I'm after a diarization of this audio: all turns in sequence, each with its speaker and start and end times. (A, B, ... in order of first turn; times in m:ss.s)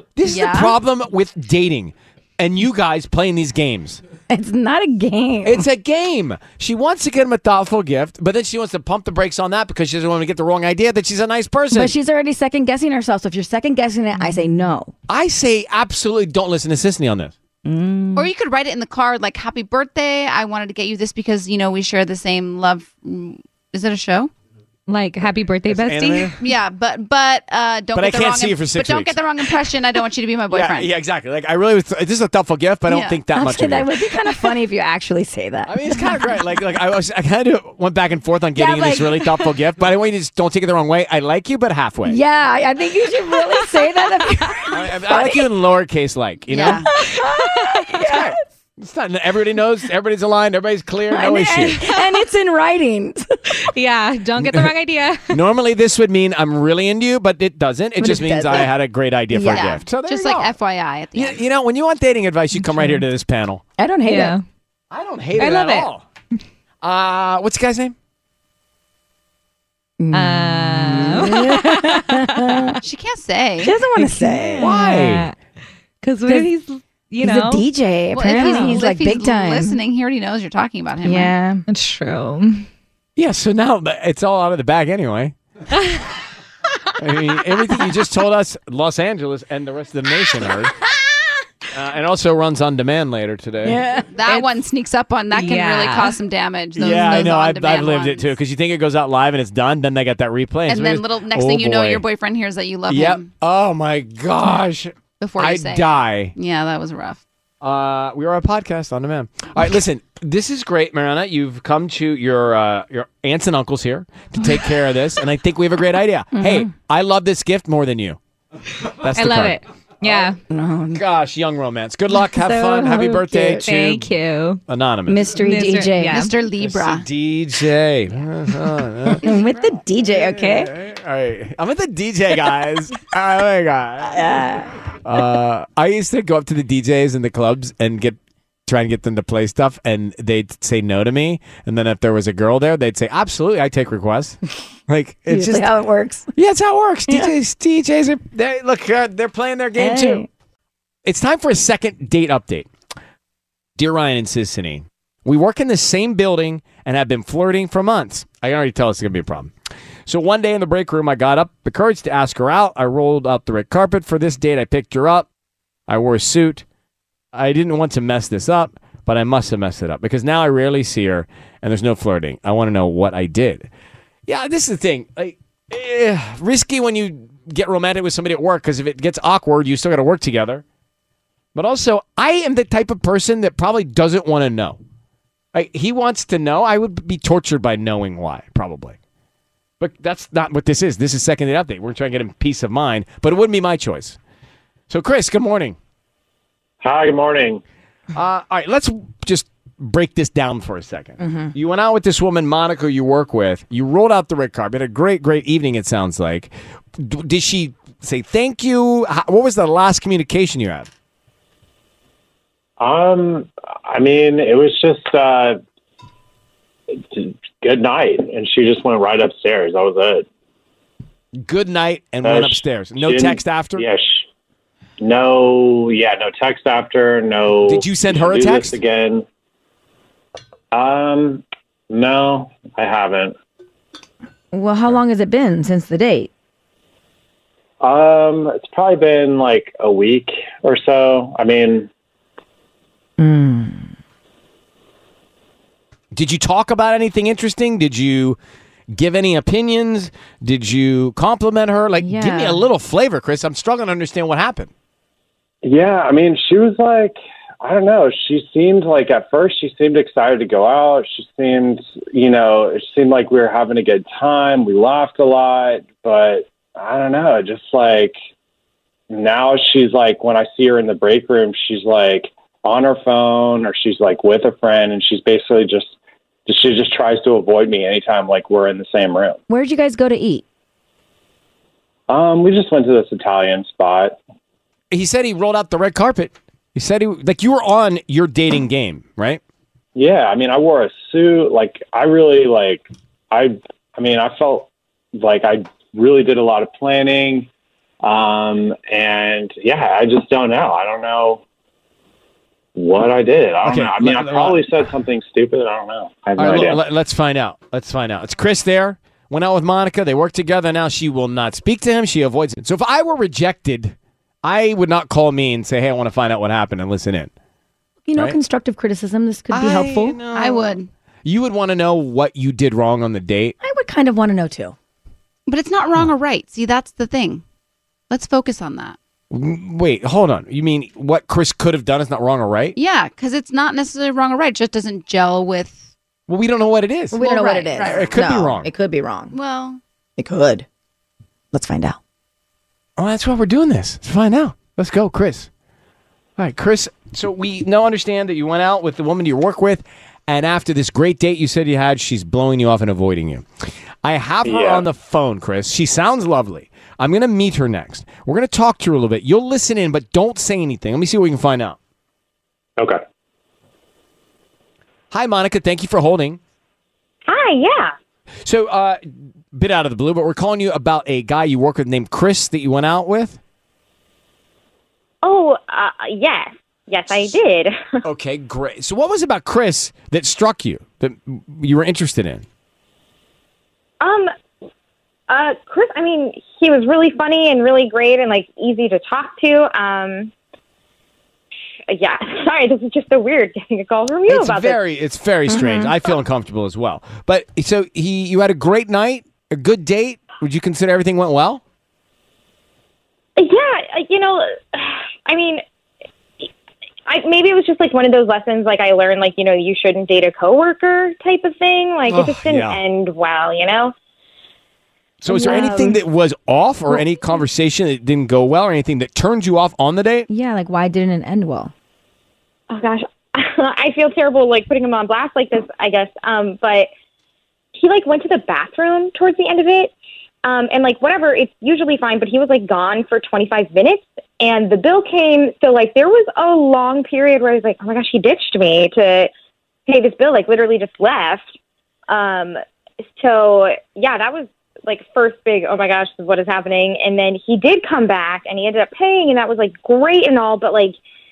0:00.2-0:04.0 A
0:00.2-0:00.8 B
0:04.3-0:05.7 C
0:05.4-0:12.0 A
0:11.7-0:14.9 C
0:15.1-0:17.3 A
0:17.6-0:18.3 C
0:18.2-0:24.3 B
0:24.9-0:26.4 D
0:25.7-0:26.4 A
0:26.4-0:30.9 B
0:27.9-0:29.6 A
0:30.5-0:34.1 A
0:32.9-0:33.2 B
0:33.3-0:36.4 C
0:35.7-0:42.2 A
0:38.6-0:39.4 C
0:42.1-0:45.5 C
0:43.3-0:44.6 D
0:44.7-0:46.9 A
0:46.5-0:46.9 B
0:46.7-0:48.3 C
0:47.2-0:47.8 D
0:47.9-0:51.8 A
0:51.1-0:53.4 C
0:51.8-0:52.2 D
0:53.6-0:55.4 D
0:54.4-0:54.7 A
0:55.3-1:00.6 A
0:58.0-0:58.7 C
0:59.3-0:59.7 C
0:59.5-1:01.4 B
1:01.2-1:03.6 A
1:02.6-1:03.0 D
1:03.8-1:04.4 C
1:04.1-1:04.4 D
1:04.9-1:06.0 A
1:05.4-1:05.9 D
1:06.8-1:08.0 A
1:10.0-1:12.8 C
1:10.1-1:12.7 D
1:12.8-1:13.8 B
1:13.6-1:14.7 C
1:14.0-1:15.4 D
1:14.6-1:15.3 A
1:16.0-1:17.6 D
1:17.2-1:19.8 C
1:18.1-1:21.3 B
1:18.3-1:18.8 D
1:21.0-1:21.6 C
1:21.7-1:22.7 D
1:23.2-1:25.4 A
1:27.0-1:30.7 A
1:31.7-1:33.9 A
1:33.6-1:34.1 C
1:34.1-1:38.3 B
1:35.3-1:36.2 D
1:36.8-1:42.0 A
1:40.7-1:43.3 B
1:42.9-1:46.3 A
1:45.2-1:47.2 B
1:47.6-1:58.2 A
1:56.3-1:56.7 C
1:58.8-2:00.3 A
1:59.1-2:00.4 D
2:00.5-2:01.0 C
2:00.9-2:04.1 A
2:02.4-2:03.6 C
2:03.6-2:04.6 D
2:04.7-2:05.3 A
2:05.1-2:06.3 C
2:05.4-2:06.3 D
2:06.1-2:07.1 B
2:06.6-2:09.2 A
2:09.2-2:09.8 B
2:09.2-2:10.7 C
2:10.1-2:14.4 A
2:14.0-2:14.8 C
2:15.0-2:25.7 A
2:25.3-2:26.3 C
2:26.4-2:30.2 A
2:29.8-2:30.3 C
2:31.0-2:32.7 A
2:33.8-2:39.5 A
2:40.1-2:45.3 A
2:45.9-2:46.6 A
2:47.3-2:53.7 A
2:54.3-3:00.6 A
3:01.6-3:04.8 A
3:05.5-3:09.0 A
3:09.8-3:14.2 A
3:14.9-3:15.8 A
3:16.8-3:17.6 E
3:18.1-3:30.9 A
3:21.2-3:21.5 C
3:32.8-3:35.6 E
3:37.1-3:40.2 E
3:41.4-3:43.8 A
3:42.2-3:44.2 E
3:45.0-3:49.2 E
3:47.7-3:48.8 A
3:50.7-3:53.3 E
3:54.5-3:56.3 C
3:57.8-4:01.9 E
4:03.2-4:03.9 C
4:06.1-4:08.4 A
4:08.9-4:14.7 A
4:12.0-4:12.7 C
4:15.6-4:28.2 E
4:29.1-4:36.0 E
4:36.5-4:39.4 E
4:39.5-4:40.4 C
4:42.1-4:44.2 E
4:44.9-4:49.4 A
4:50.0-4:57.5 E
4:58.0-5:01.4 E
5:02.8-5:06.8 E
5:03.6-5:04.6 A
5:06.4-5:17.3 A
5:18.1-5:20.2 C
5:19.5-5:23.6 A
5:20.3-5:20.9 B
5:23.6-5:24.8 C
5:25.5-5:27.4 B
5:28.1-5:29.0 B
5:29.3-5:32.8 A
5:32.8-5:35.9 B
5:36.3-5:37.2 A
5:37.1-5:39.3 C
5:37.1-5:38.2 B
5:37.8-5:38.7 A
5:39.3-5:39.8 B
5:40.2-5:40.7 C
5:41.5-5:42.0 C
5:43.0-5:45.5 A
5:46.4-5:53.5 A
5:54.0-6:01.8 A
5:54.4-5:54.9 E
6:05.1-6:06.4 A
6:07.3-6:07.9 F
6:08.4-6:09.0 A
6:09.5-6:13.4 A
6:15.2-6:18.0 F
6:18.0-6:22.4 A
6:24.0-6:24.3 F
6:25.3-6:30.3 F
6:31.9-6:34.8 F
6:34.3-6:41.6 A
6:35.5-6:35.9 C
6:43.4-6:45.6 F
6:47.1-6:53.9 F
6:52.1-6:52.8 A
6:55.2-7:00.3 A
6:55.3-6:56.0 F
6:55.3-6:56.0 C
7:00.3-7:01.7 C
7:02.7-7:06.9 F
7:07.8-7:09.9 F
7:10.4-7:19.3 F
7:19.9-7:21.4 F
7:22.1-7:22.6 F
7:23.2-7:31.0 F